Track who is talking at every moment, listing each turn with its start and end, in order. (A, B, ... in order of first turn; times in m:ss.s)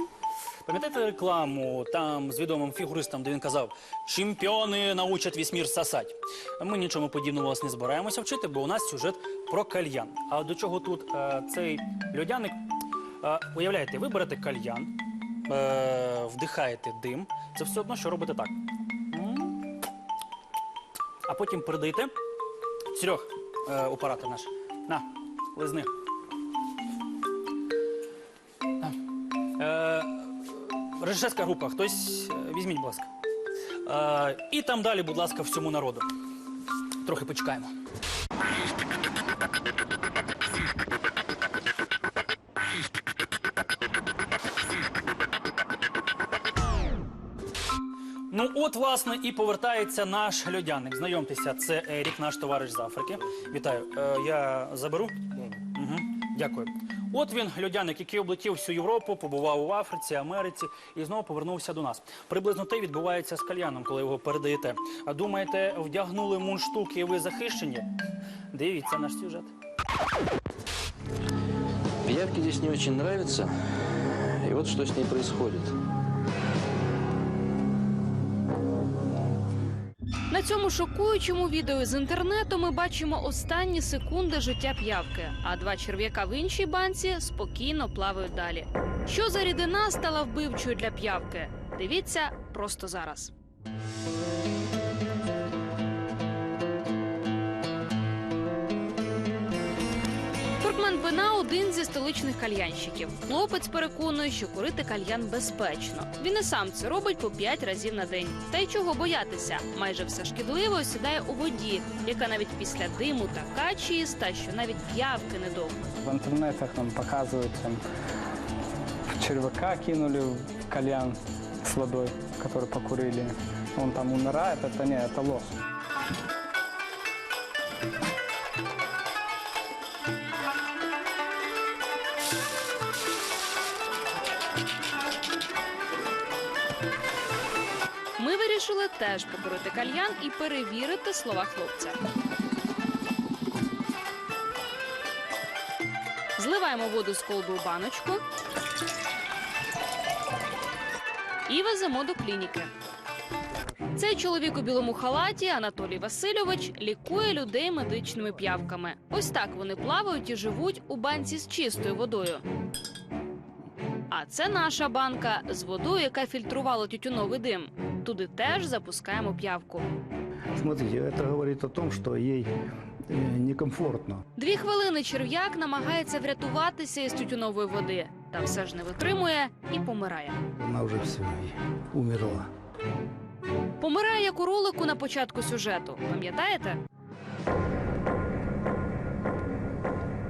0:00.6-0:12.6 A
0:13.2-0:14.9 A
0:15.5-0:18.5 A
0:19.1-0:19.6 A
0:21.3-0:22.1 A
0:22.9-0:25.9 A
0:29.6-0:30.1 A
0:31.0-0:33.1 A
0:33.8-0:36.1 A
0:37.0-0:37.7 A
0:48.3-0:55.2 A
0:55.8-1:07.9 A
1:08.5-1:09.5 A
1:12.0-1:15.7 B
1:20.3-1:33.3 C
1:40.6-1:55.8 C
1:56.0-1:57.8 D
1:59.1-2:05.6 D
2:18.2-2:22.0 C
2:26.4-2:28.2 C
2:31.5-2:32.7 C
2:34.0-2:42.4 C
2:44.1-2:49.9 C
2:50.6-2:52.5 E
2:53.1-2:54.2 E
2:54.4-3:00.4 C
3:00.6-3:02.5 E
3:03.8-3:06.8 C